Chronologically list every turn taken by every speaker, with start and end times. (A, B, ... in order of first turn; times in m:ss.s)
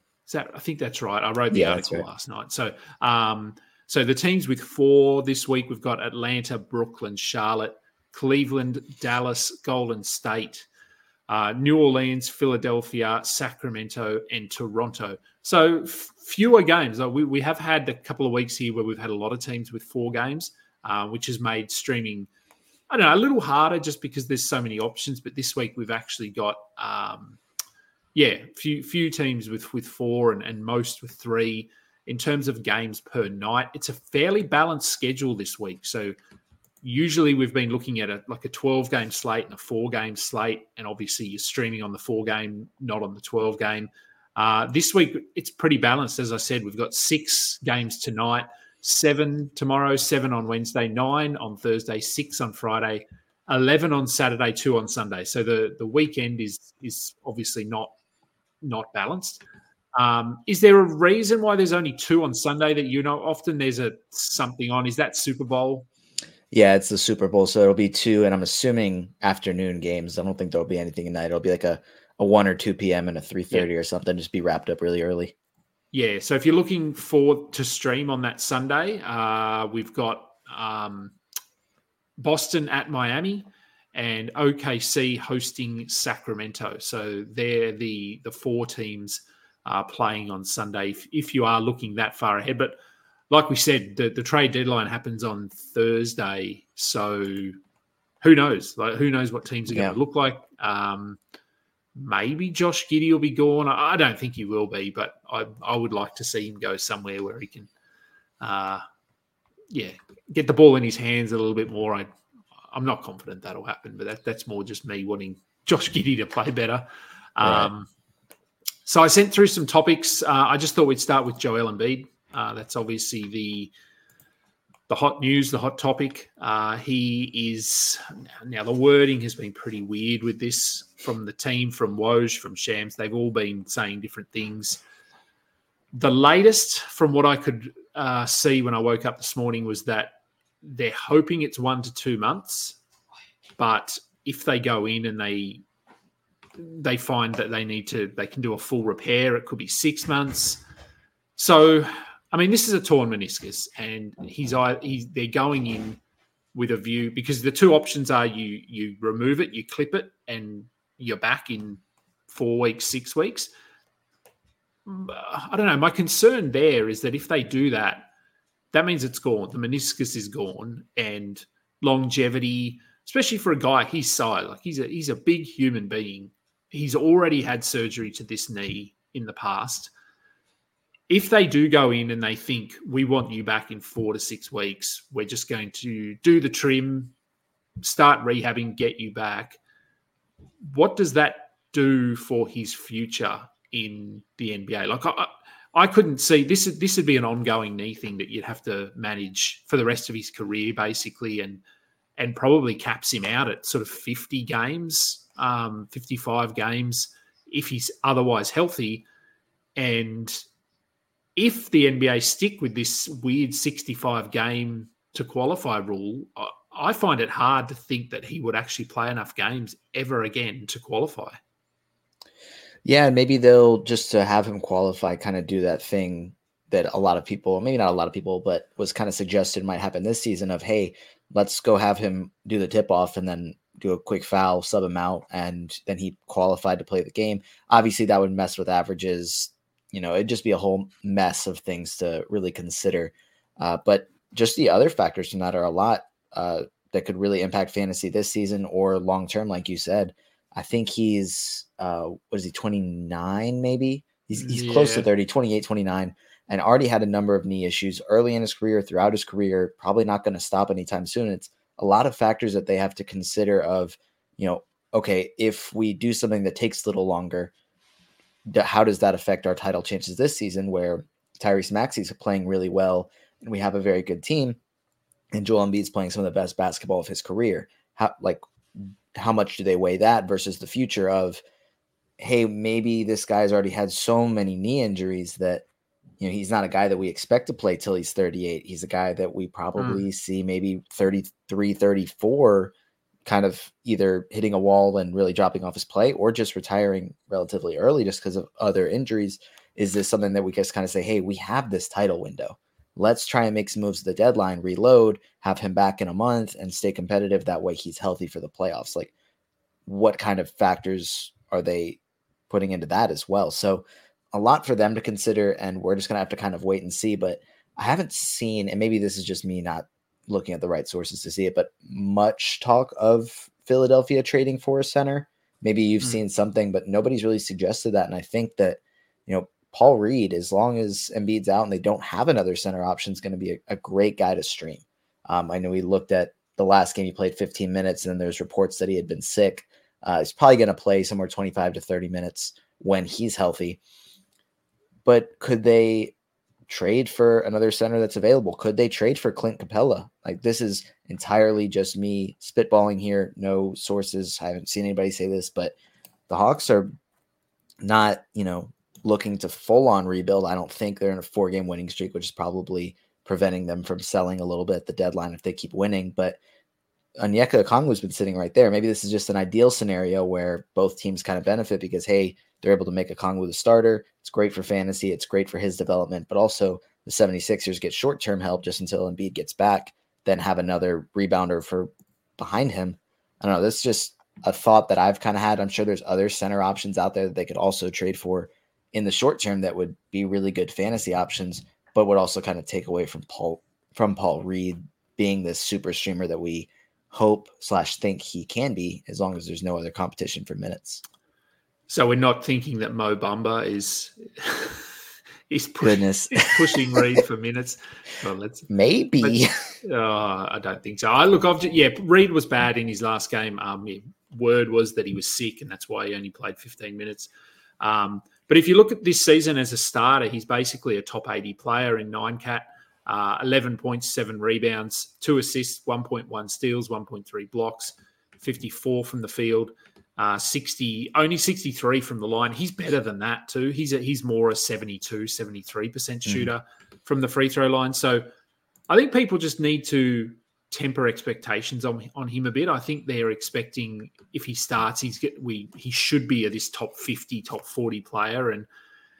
0:00.3-0:10.7 A
0:01.5-0:02.0 B
0:11.3-0:22.3 A
0:22.9-0:27.4 A
0:28.1-0:36.1 A
0:36.8-0:57.9 A
0:58.6-0:59.4 A
0:59.9-1:05.9 A
1:06.5-1:15.3 B
1:15.9-1:21.1 A
1:22.2-1:32.8 A
1:33.3-1:37.6 A
1:38.2-1:41.2 A
1:39.7-1:40.0 B
1:41.9-1:47.7 A
1:48.4-1:48.8 A
1:49.7-1:52.1 A
1:52.7-1:57.9 A
1:57.4-1:57.7 B
1:58.8-2:03.7 A
2:04.9-2:14.8 A
2:15.9-2:22.8 A
2:23.6-2:25.6 A
2:26.6-2:30.6 A
2:31.4-2:36.0 A
2:36.5-2:43.5 A
2:44.8-2:48.1 A
2:48.7-2:59.9 A
3:01.1-3:07.1 A
3:07.8-3:09.6 A
3:10.6-3:21.6 A
3:22.2-3:29.0 A
3:29.8-3:30.4 A
3:31.4-3:41.4 A
3:42.8-4:27.5 B
4:14.4-4:15.1 A
4:28.5-4:34.6 B
4:35.3-4:41.4 B
4:42.2-4:45.6 B
4:46.2-4:52.7 B
4:49.8-4:50.0 A
4:53.2-5:09.1 B
5:09.8-5:12.0 B
5:12.5-5:43.8 B
5:45.0-5:46.1 B
5:46.7-5:55.7 B
5:56.3-5:56.9 B
5:57.8-6:06.4 B
6:07.2-6:41.0 B
6:41.9-6:44.9 A
6:45.5-6:48.7 A
6:45.8-6:47.0 B
6:48.7-6:49.5 B
6:49.2-6:57.3 A
6:57.8-7:18.3 A
7:18.9-7:28.7 A